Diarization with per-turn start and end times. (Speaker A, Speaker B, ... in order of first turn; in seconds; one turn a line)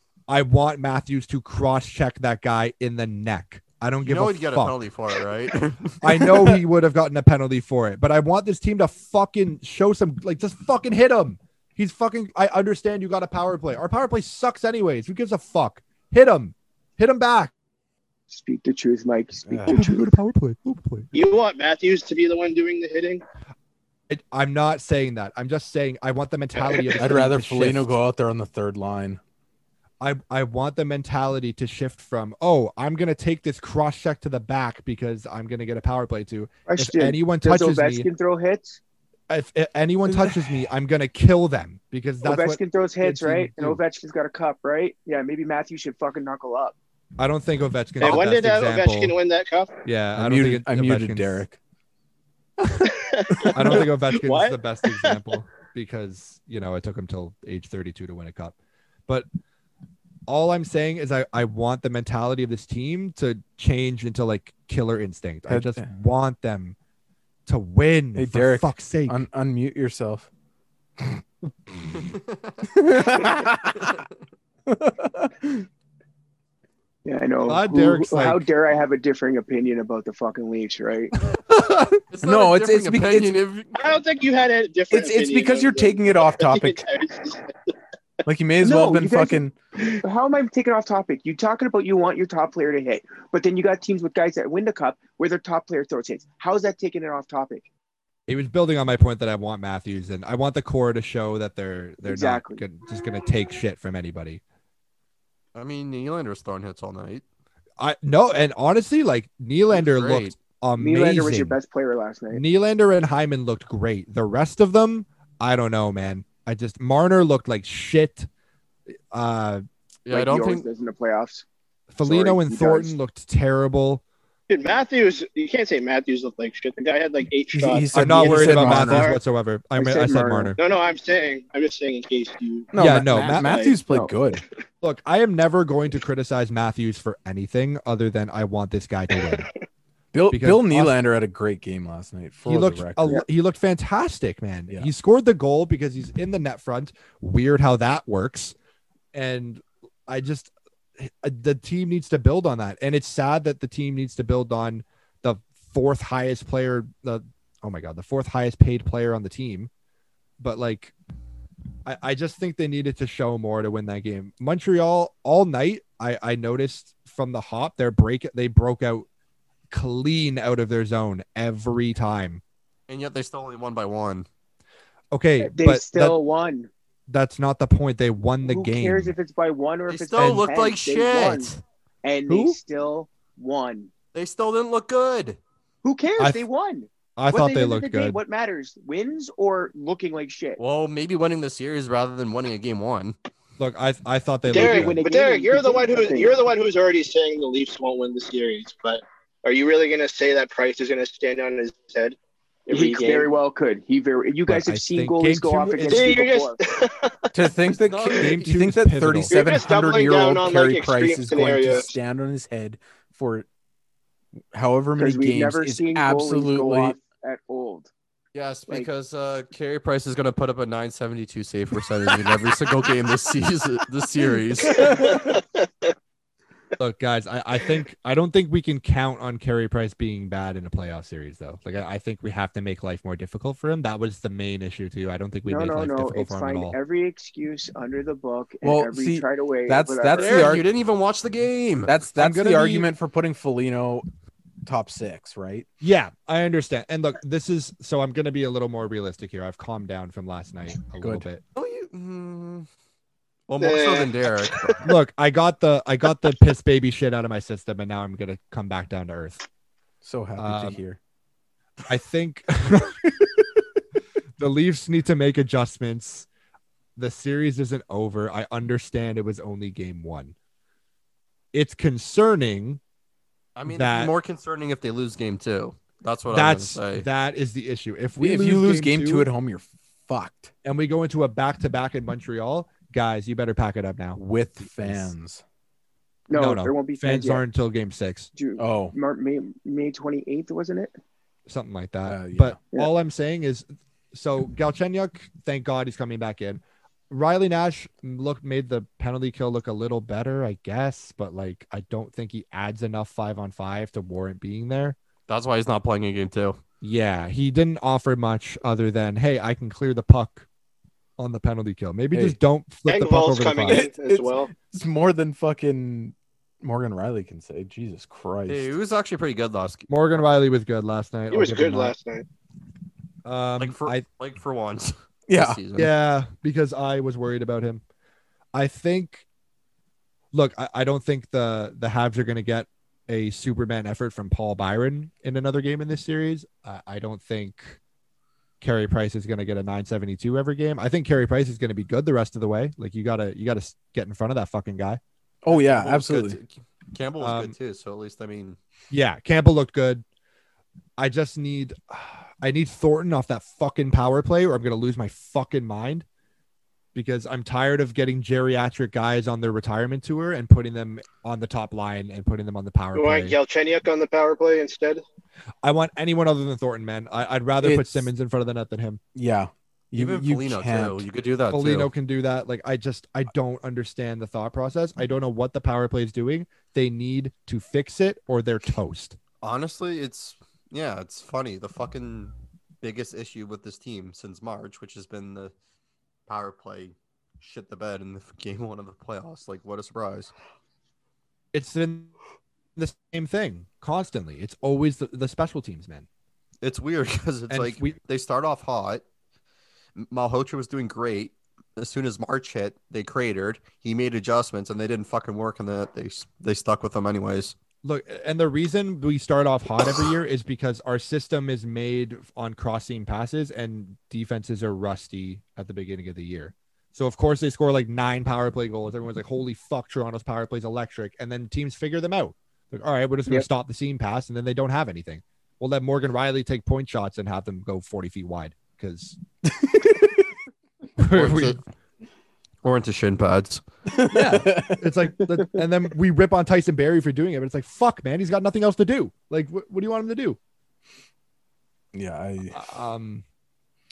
Speaker A: 0.3-4.8
Speaker B: 4.0-6.6
Speaker A: 6.0-17.5
Speaker C: 18.3-20.1
Speaker D: 19.5-19.8
Speaker A: 19.7-21.1
Speaker E: 21.1-23.2
Speaker A: 24.1-27.9
Speaker E: 26.6-27.0
Speaker D: 27.0-29.2
Speaker A: 30.0-38.1
Speaker C: 36.7-38.8
Speaker A: 39.3-43.8
Speaker C: 42.2-46.8
Speaker A: 47.2-49.1
Speaker E: 48.0-49.8
Speaker A: 49.8-51.4
Speaker D: 50.1-51.6
Speaker E: 52.7-55.2
Speaker A: 53.5-58.5
Speaker A: 60.3-66.8
Speaker D: 65.5-65.9
Speaker A: 67.5-69.2
Speaker D: 68.2-70.3
Speaker B: 72.0-72.6
Speaker D: 72.7-74.0
Speaker D: 74.7-75.7
Speaker C: 77.0-81.1
Speaker A: 77.4-78.5
Speaker B: 82.0-83.7
Speaker D: 82.2-83.4
Speaker E: 83.7-87.5
Speaker D: 84.9-86.8
Speaker D: 88.2-89.5
Speaker C: 88.6-89.4
Speaker C: 89.9-97.7
Speaker A: 98.3-104.4
Speaker C: 102.0-102.6
Speaker B: 105.5-107.2
Speaker A: 107.8-111.6
Speaker B: 109.7-110.3
Speaker C: 110.8-112.4
Speaker A: 112.3-118.3
Speaker A: 119.1-119.6
Speaker B: 120.0-120.7
Speaker C: 120.1-121.4
Speaker A: 121.9-124.0
Speaker C: 122.0-122.9
Speaker E: 124.5-129.2
Speaker D: 127.5-129.1
Speaker A: 127.9-130.6
Speaker C: 129.8-130.6
Speaker E: 130.6-133.8
Speaker D: 132.7-134.4
Speaker A: 132.8-133.5
Speaker C: 133.9-134.1
Speaker A: 134.8-139.5
Speaker D: 140.1-143.2
Speaker A: 140.3-140.9
Speaker A: 142.4-148.5
Speaker A: 149.1-159.7
Speaker A: 160.4-160.9
Speaker A: 161.8-169.1
Speaker A: 169.7-172.4
Speaker B: 172.9-174.3
Speaker A: 175.1-176.2
Speaker C: 175.4-176.7
Speaker A: 177.1-179.1
Speaker C: 178.4-181.5
Speaker B: 179.9-181.6
Speaker A: 180.2-180.5
Speaker C: 182.0-183.9
Speaker A: 182.3-182.6
Speaker B: 184.1-185.4
Speaker C: 185.8-190.6
Speaker A: 186.2-186.4
Speaker A: 187.2-188.2
Speaker B: 190.6-193.1
Speaker A: 193.6-195.0
Speaker E: 194.5-203.3
Speaker C: 194.5-196.4
Speaker C: 202.7-206.6
Speaker A: 204.5-206.1
Speaker E: 205.8-207.1
Speaker D: 207.3-213.5
Speaker B: 207.7-208.5
Speaker A: 208.2-209.3
Speaker E: 209.3-211.9
Speaker D: 214.5-216.9
Speaker C: 215.0-217.9
Speaker B: 218.3-225.2
Speaker E: 224.7-225.4
Speaker A: 226.8-236.8
Speaker C: 235.5-240.5
Speaker D: 238.6-240.7
Speaker B: 240.1-241.9
Speaker D: 241.8-244.1
Speaker A: 242.2-242.9
Speaker D: 244.6-245.7
Speaker A: 245.8-251.4
Speaker D: 251.0-251.3
Speaker B: 251.5-252.7
Speaker B: 253.5-254.8
Speaker E: 253.6-254.8
Speaker A: 254.8-259.4
Speaker D: 260.0-261.0
Speaker A: 260.4-260.8
Speaker A: 261.9-263.2
Speaker A: 264.4-266.3
Speaker A: 266.9-270.3
Speaker A: 271.5-272.8
Speaker B: 273.6-277.1
Speaker A: 273.7-274.1
Speaker A: 276.3-279.3
Speaker D: 278.2-280.5
Speaker A: 280.6-285.1
Speaker D: 284.1-285.4
Speaker C: 286.3-287.4
Speaker A: 286.3-288.3
Speaker C: 288.3-290.9
Speaker D: 288.6-288.9
Speaker A: 291.5-305.0
Speaker D: 292.1-292.6
Speaker B: 305.3-306.6
Speaker A: 306.8-310.4
Speaker A: 311.2-313.9
Speaker D: 312.1-312.4
Speaker E: 312.9-314.5
Speaker D: 313.7-318.7
Speaker B: 318.5-319.9
Speaker A: 319.9-321.9
Speaker E: 321.3-322.2
Speaker A: 323.2-324.0
Speaker B: 323.6-325.9
Speaker D: 325.3-325.6
Speaker A: 325.8-327.8
Speaker A: 328.5-329.2
Speaker A: 330.3-337.8
Speaker A: 338.6-345.0
Speaker D: 345.4-346.4
Speaker B: 345.5-348.6
Speaker A: 347.2-347.5
Speaker A: 348.9-350.0
Speaker A: 351.0-356.0
Speaker A: 356.9-363.4
Speaker E: 362.9-365.0
Speaker A: 365.6-369.0
Speaker D: 367.6-368.1
Speaker D: 369.1-371.1
Speaker B: 369.9-371.9
Speaker A: 371.5-379.2
Speaker B: 379.4-385.5
Speaker B: 386.3-390.3
Speaker A: 391.5-392.1
Speaker A: 392.8-396.1
Speaker B: 396.6-399.0
Speaker A: 397.5-398.0
Speaker B: 400.0-407.6
Speaker A: 407.8-429.2
Speaker D: 429.5-430.2
Speaker A: 431.0-431.6
Speaker B: 431.1-431.6
Speaker B: 432.6-433.6
Speaker D: 433.9-434.8
Speaker A: 434.1-440.4
Speaker D: 441.9-442.7
Speaker A: 442.5-443.2